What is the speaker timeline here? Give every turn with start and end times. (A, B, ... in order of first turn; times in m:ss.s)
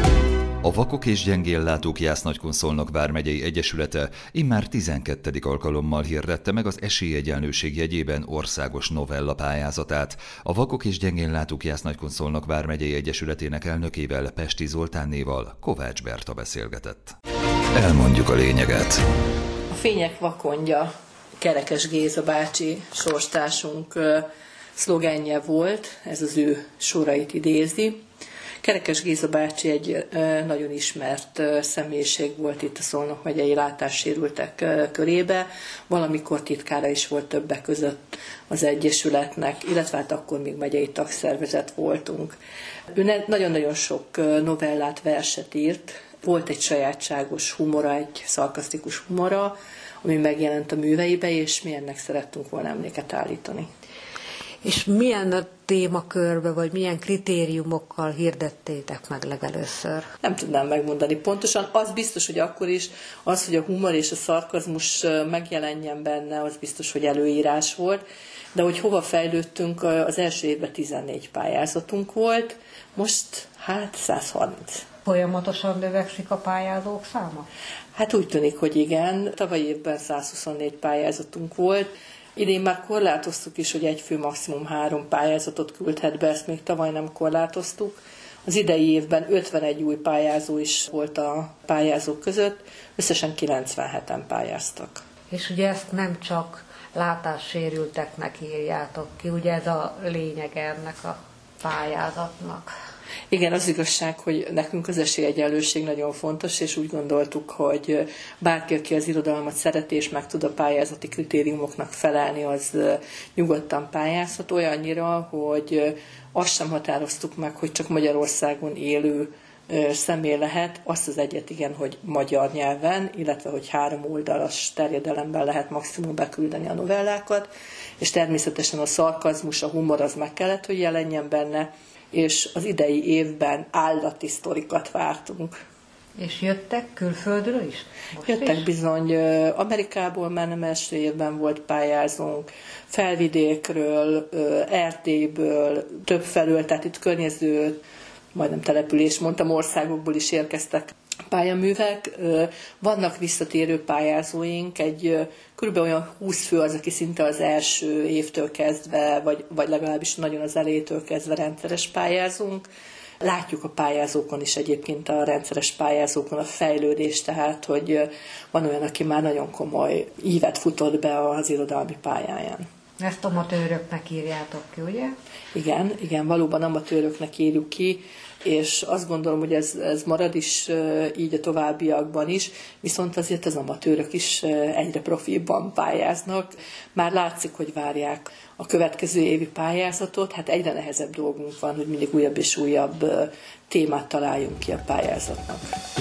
0:00.6-0:17.2 A
0:17.7-0:19.0 A
0:19.7-0:20.9 B
0:21.4-0:28.0 B
0:28.6-0:42.4 B
0:42.9-0:53.7 B
0:54.6-1:00.1 C
1:00.2-1:08.0 B
1:08.5-1:14.9 B
1:15.0-1:17.4 C
1:17.9-1:35.0 B
1:35.3-1:42.7 C
1:43.3-2:15.5 B
2:16.2-2:18.6 C
2:18.2-2:27.8 B
2:28.3-2:42.6 B
2:43.2-2:52.6 B
2:53.0-2:55.1 C
2:55.5-3:15.7 B